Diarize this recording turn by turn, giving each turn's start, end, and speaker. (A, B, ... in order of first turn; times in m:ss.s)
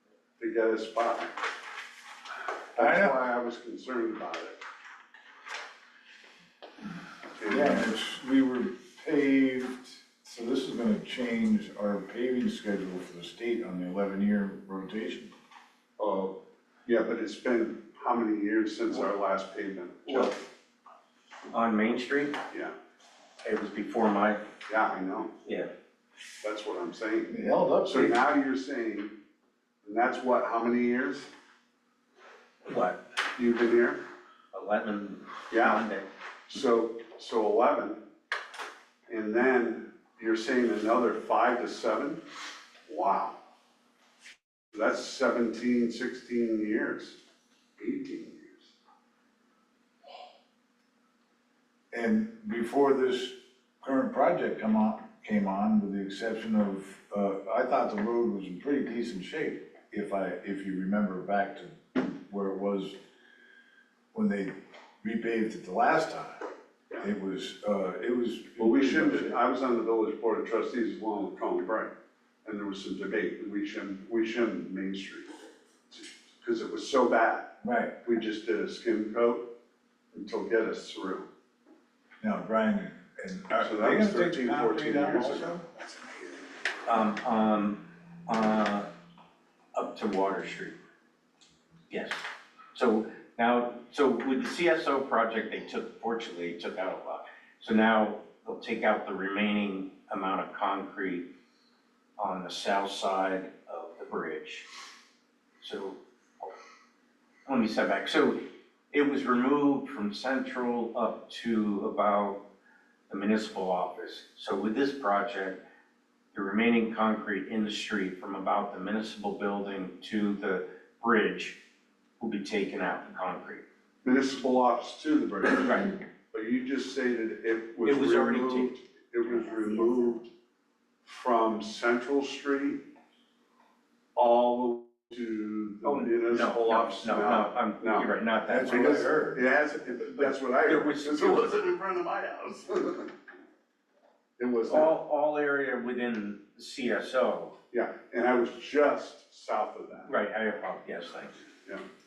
0:00.4-0:01.3 A
0:02.8-0:04.6 A
0:02.8-0:03.2 B
0:07.4-0:07.9 A
0:07.5-0:15.3 B
0:16.0-0:20.4 A
0:20.1-0:20.3 C
0:21.5-0:22.4 C
0:23.4-0:24.4 C
0:24.7-0:25.3 A
0:25.4-0:25.7 C
0:26.4-0:29.2 A
0:27.3-0:28.1 B
0:29.8-0:31.3 A
0:32.6-0:33.0 C
0:33.4-0:34.0 A
0:34.5-0:36.1 C
0:35.5-0:35.8 A
0:36.5-0:38.0 A
0:39.1-0:42.2 A
0:42.9-0:43.4 A
0:44.7-0:47.2 A
0:47.8-0:48.7 A
0:51.9-1:03.0 B
1:04.1-1:06.4 B
1:07.0-1:09.4 B
1:08.6-1:11.9 A
1:12.4-1:15.3 A
1:15.9-1:17.5 A
1:17.6-1:18.0 B
1:18.0-1:19.5 A
1:20.1-1:21.3 A
1:22.2-1:25.6 B
1:23.6-1:26.5 A
1:26.8-1:28.9 C
1:29.8-1:30.8 C
1:31.9-1:32.2 C
1:32.8-1:41.3 C
1:42.2-1:44.7 C
1:45.6-1:46.5 C
1:47.5-1:48.4 C
1:48.9-1:52.4 C
1:53.1-1:55.6 C
1:56.3-2:01.6 C
2:02.2-2:03.6 C
2:04.0-2:10.3 A
2:05.6-2:06.0 C
2:07.8-2:08.7 C
2:11.1-2:12.8 A
2:14.2-2:23.1 A
2:15.8-2:19.1 C
2:18.5-2:19.5 B
2:20.2-2:21.6 C
2:24.4-2:24.9 A
2:24.7-2:27.6 C
2:27.7-2:30.1 A
2:30.1-2:31.4 C